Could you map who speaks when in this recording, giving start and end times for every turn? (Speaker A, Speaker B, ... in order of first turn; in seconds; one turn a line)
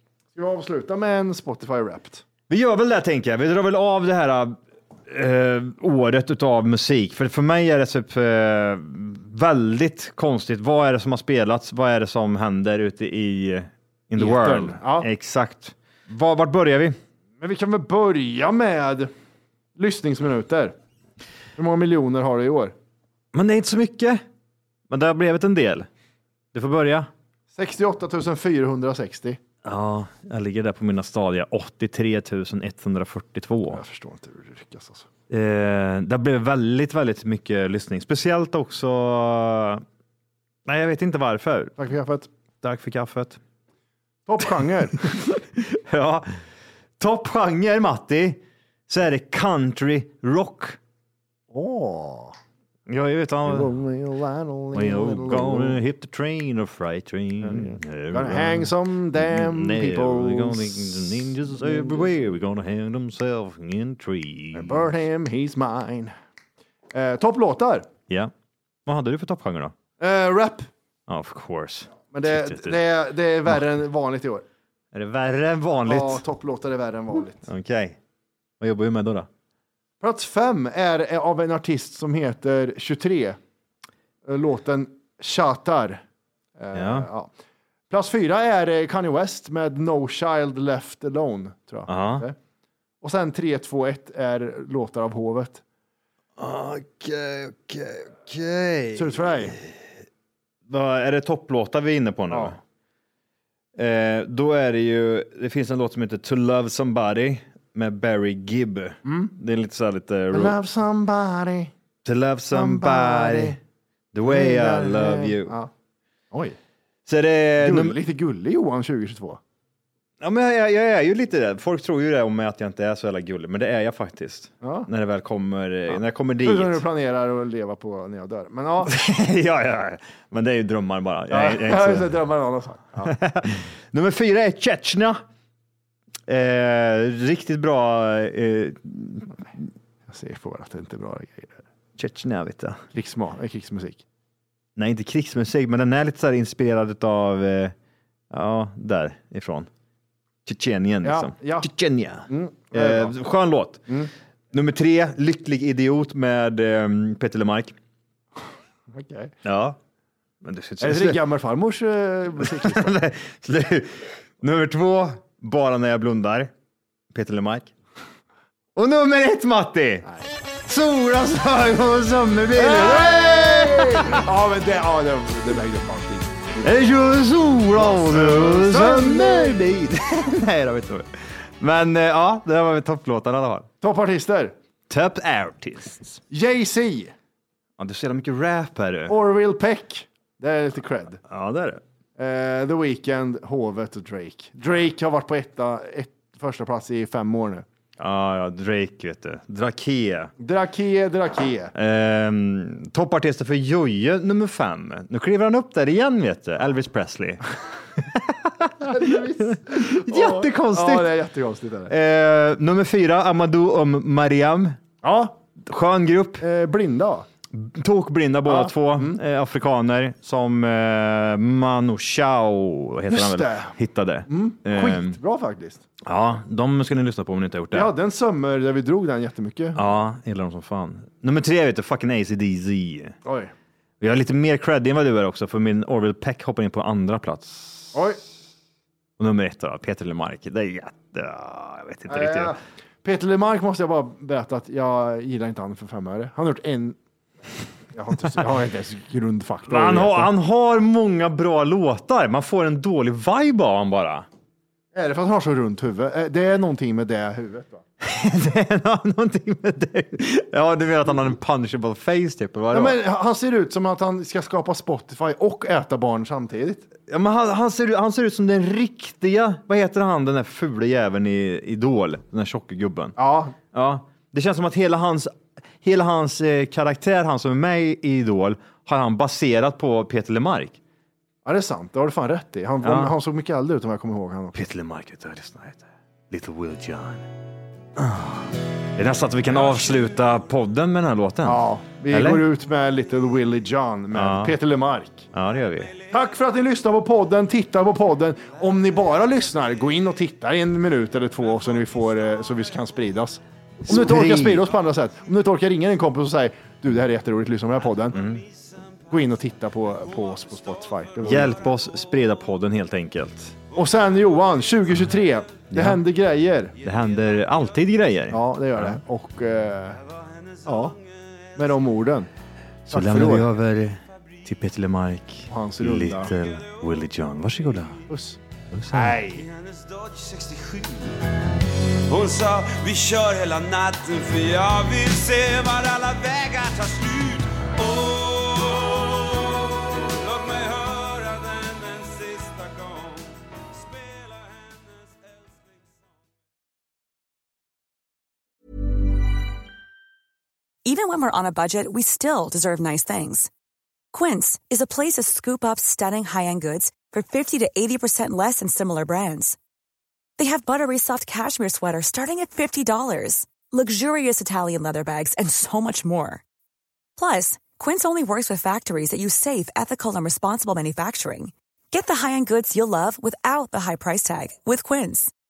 Speaker A: 0.3-2.2
Speaker B: 2.5-17.0
Speaker A: 14.2-15.1
Speaker A: 17.4-19.1
Speaker A: 19.8-20.7
Speaker A: 21.6-22.7
Speaker B: 23.3-24.2
Speaker B: 24.9-25.9
Speaker B: 26.5-27.1
Speaker A: 27.5-29.4
Speaker B: 29.6-33.8
Speaker A: 33.7-35.1
Speaker B: 35.3-39.8
Speaker B: 40.6-41.7
Speaker A: 41.8-42.3
Speaker B: 42.6-43.4
Speaker A: 44.2-45.0
Speaker B: 45.3-46.2
Speaker B: 47.0-50.8
Speaker A: 51.5-52.3
Speaker B: 52.9-53.7
Speaker A: 53.5-55.8
Speaker B: 54.7-64.9
Speaker A: 57.4-62.1
Speaker A: 64.5-66.1
Speaker A: 66.9-67.9
Speaker B: 68.8-69.7
Speaker A: 70.0-70.7
Speaker B: 71.1-72.7
Speaker A: 72.0-74.4
Speaker B: 74.9-76.2
Speaker A: 75.8-77.5
Speaker B: 77.5-78.0
Speaker B: 78.6-79.3
Speaker A: 80.0-83.4
Speaker A: 84.2-86.0
Speaker A: 86.6-87.3
Speaker B: 86.7-87.1
Speaker A: 87.9-92.3
Speaker B: 91.9-92.2
Speaker A: 93.0-95.6
Speaker B: 96.4-99.8
Speaker A: 98.9-99.5
Speaker B: 100.7-102.6
Speaker A: 102.3-102.6
Speaker B: 103.8-110.5
Speaker A: 109.0-109.3
Speaker A: 110.3-111.7
Speaker B: 112.0-113.6
Speaker A: 112.5-113.6
Speaker B: 114.1-115.5
Speaker A: 114.2-115.7
Speaker A: 116.3-116.6
Speaker B: 117.1-118.0
Speaker A: 117.6-119.4
Speaker B: 120.2-126.8
Speaker A: 124.6-124.9
Speaker A: 125.9-128.9
Speaker B: 128.8-132.1
Speaker A: 131.3-133.1
Speaker B: 133.0-135.2
Speaker B: 136.3-139.6
Speaker A: 140.1-141.6
Speaker B: 141.9-142.8
Speaker A: 142.9-144.0
Speaker B: 144.8-147.7
Speaker B: 148.3-149.7
Speaker B: 150.4-153.9
Speaker A: 151.0-151.7
Speaker A: 152.3-153.1
Speaker B: 154.5-157.7
Speaker A: 158.9-159.3
Speaker B: 159.4-159.8
Speaker B: 160.4-161.2
Speaker A: 160.8-162.9
Speaker B: 162.4-166.5
Speaker B: 167.1-167.7
Speaker B: 168.8-170.1
Speaker B: 170.7-174.2
Speaker A: 172.5-176.7
Speaker B: 176.6-183.7
Speaker A: 177.7-179.7
Speaker A: 183.8-184.5
Speaker B: 184.9-186.2
Speaker A: 186.3-187.1
Speaker B: 187.8-189.1
Speaker A: 189.1-191.2
Speaker B: 191.3-191.8
Speaker A: 192.2-197.6
Speaker B: 198.0-200.3
Speaker A: 200.4-201.7
Speaker B: 201.7-211.1
Speaker A: 208.8-211.9
Speaker B: 211.9-214.8
Speaker A: 215.0-215.4
Speaker B: 215.6-216.4
Speaker A: 216.4-217.3
Speaker B: 217.5-225.2
Speaker A: 218.4-219.2
Speaker A: 223.1-223.7
Speaker A: 224.3-225.8
Speaker B: 226.0-227.9
Speaker A: 227.7-229.8
Speaker B: 229.7-233.2
Speaker A: 233.2-233.5
Speaker B: 234.0-238.0
Speaker A: 237.9-238.2
Speaker B: 239.2-242.5
Speaker A: 242.1-247.0
Speaker A: 247.9-250.3
Speaker B: 249.7-254.2
Speaker A: 254.9-257.8
Speaker B: 258.0-263.0
Speaker A: 262.7-266.9
Speaker B: 267.1-273.1
Speaker A: 273.2-273.5
Speaker B: 273.7-280.8
Speaker A: 281.4-284.6
Speaker B: 282.8-283.1
Speaker B: 284.5-287.2
Speaker B: 288.0-292.4
Speaker A: 291.4-295.3
Speaker B: 294.1-294.6
Speaker B: 295.3-295.9
Speaker A: 296.1-308.2
Speaker B: 303.9-304.7
Speaker B: 308.1-308.4
Speaker A: 309.1-311.6
Speaker B: 311.2-313.5
Speaker A: 313.7-316.7
Speaker B: 315.7-316.0
Speaker B: 316.8-319.0
Speaker A: 318.3-320.0
Speaker A: 320.6-321.0
Speaker A: 321.6-322.3
Speaker B: 322.9-328.0
Speaker A: 322.9-323.5
Speaker A: 325.5-326.3
Speaker A: 328.1-328.4
Speaker B: 328.7-329.4
Speaker A: 328.9-329.3
Speaker C: 329.3-331.1
Speaker C: 332.1-345.8
Speaker D: 350.8-353.5
Speaker D: 354.1-359.6
Speaker D: 360.4-366.4
Speaker D: 367.2-375.3